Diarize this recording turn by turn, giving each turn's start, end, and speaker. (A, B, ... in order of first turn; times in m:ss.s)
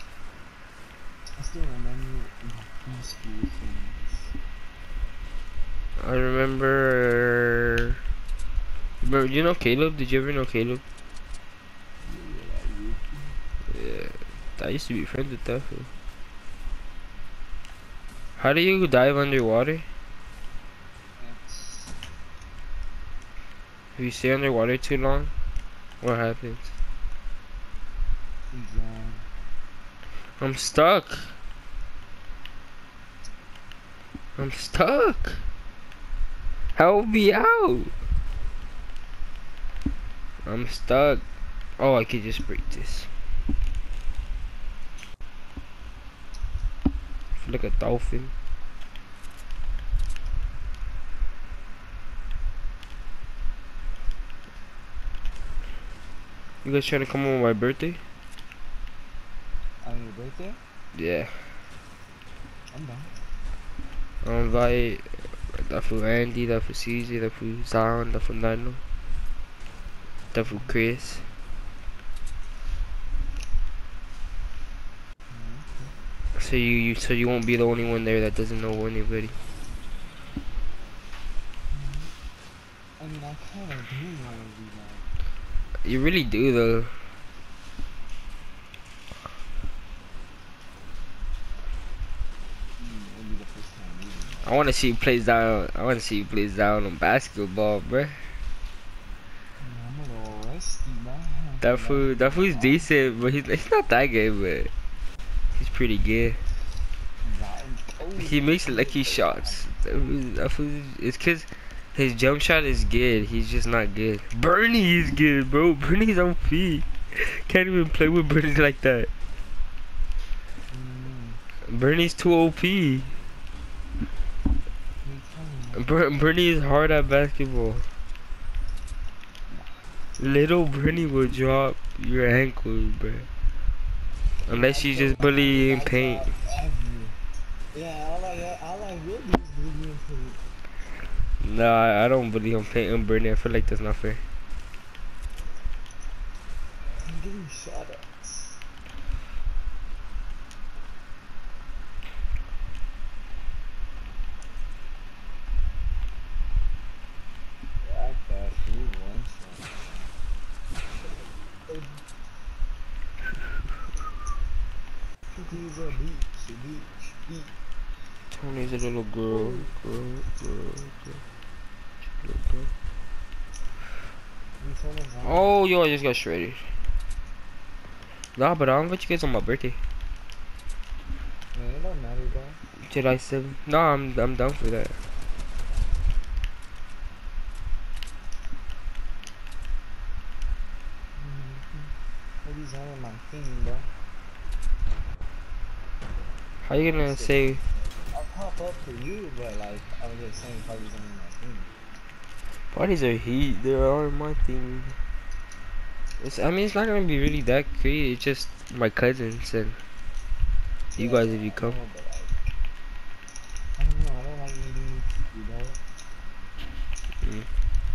0:01.4-0:04.3 A
0:06.0-0:08.0 B
0:09.0-0:10.8 B
0:12.0-0:13.4 A
0:13.7-0:15.9 B
0:18.4-0:19.8 B
0:21.2-0:22.0 A
0:23.9-0:25.3 B
0:26.0-0:26.7 B
0:28.5-0:29.2 A
0:30.4-0:31.3 B
0:34.4-0:35.4 B
0:36.8-0:37.9 B
0:40.4-0:41.2 B
0:41.8-0:43.1 B
0:47.4-0:48.3 B
0:56.6-0:58.0 B
0:59.8-1:00.6 A
1:00.9-1:01.5 B
1:02.7-1:03.2 A
1:04.2-1:08.8 B
1:10.3-1:11.2 B
1:10.4-1:10.7 A
1:15.3-1:16.0 A
1:16.4-1:19.3 B
1:21.7-1:22.1 A
1:23.0-1:25.1 A
1:25.8-1:26.9 B
1:32.8-1:34.6 A
1:34.4-1:38.2 B
1:39.6-1:43.0 A
1:41.6-1:44.7 B
1:45.6-1:46.4 B
1:47.2-1:50.1 A
1:48.2-1:59.1 B
2:00.7-2:01.4 A
2:01.7-2:03.1 B
2:05.0-2:06.3 A
2:05.8-2:07.8 B
2:09.5-2:09.8 A
2:10.2-2:13.3 B
2:14.4-2:17.2 A
2:14.5-2:16.2 B
2:17.7-2:20.4 A
2:21.4-2:24.2 B
2:27.0-2:28.6 A
2:37.8-2:40.1 A
2:41.7-2:42.0 A
2:45.3-2:47.6 A
2:48.3-2:51.2 B
2:49.3-2:49.7 A
2:52.2-2:52.7 B
2:54.6-2:55.5 A
2:55.2-2:56.6 B
2:58.4-2:59.8 B
3:01.5-3:02.6 A
3:02.8-3:05.0 B
3:11.1-3:13.9 A
3:16.6-3:17.6 B
3:16.7-3:21.7 A
3:22.7-3:25.0 B
3:26.2-3:29.8 B
3:30.9-3:32.5 A
3:31.0-3:31.8 B
3:33.8-3:35.8 A
3:37.2-3:37.5 B